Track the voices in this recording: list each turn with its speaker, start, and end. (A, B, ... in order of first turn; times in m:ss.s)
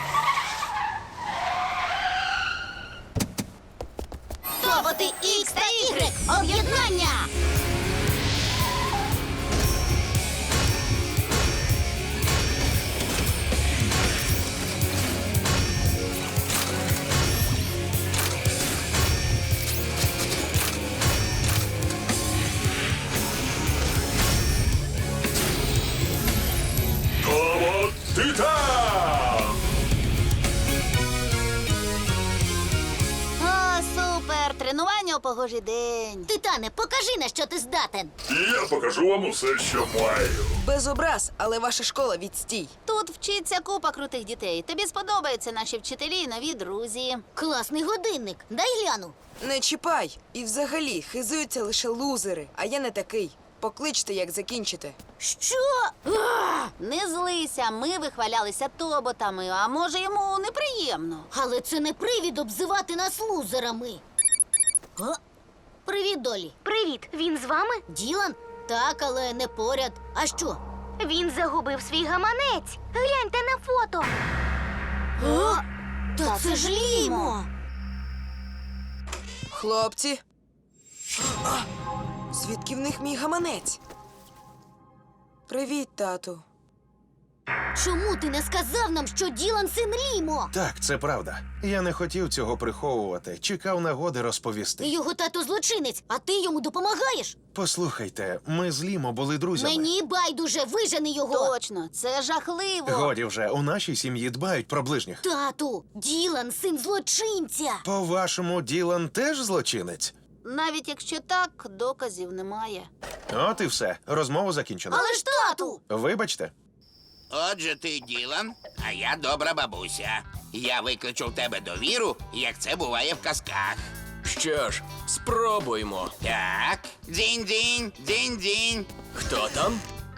0:04.6-0:07.1 A
0:04.6-0:07.3 B
0:27.2-0:29.5 C
0:33.4-0:36.3 A
0:36.3-0:38.1 B
0:38.3-0:40.7 C
0:40.7-0:42.7 D
0:42.8-0:47.2 A
0:47.4-0:49.2 B
0:49.4-0:55.0 D
0:55.2-0:56.7 B
0:56.8-1:01.3 A
1:01.3-1:04.0 B
1:05.8-1:14.1 B
1:15.2-1:15.6 B
1:15.2-1:15.6 A
1:16.2-1:17.5 B
1:16.2-1:17.4 A
1:19.5-1:20.2 D
1:22.3-1:23.8 D
1:25.5-1:26.4 D
1:27.8-1:30.5 B
1:30.5-1:34.9 E
1:34.8-1:37.4 B
1:37.5-1:39.9 E
1:39.5-1:41.5 B
1:41.3-1:43.1 A
1:42.8-1:45.2 E
1:45.2-1:47.8 B
1:47.8-1:50.1 E
1:50.4-1:52.9 A
1:53.3-1:55.1 E
1:54.9-1:55.8 B
1:55.3-1:55.7 A
1:55.9-1:56.5 E
1:57.3-2:03.8 F
2:04.2-2:06.1 G
2:06.2-2:08.9 F
2:09.1-2:09.8 G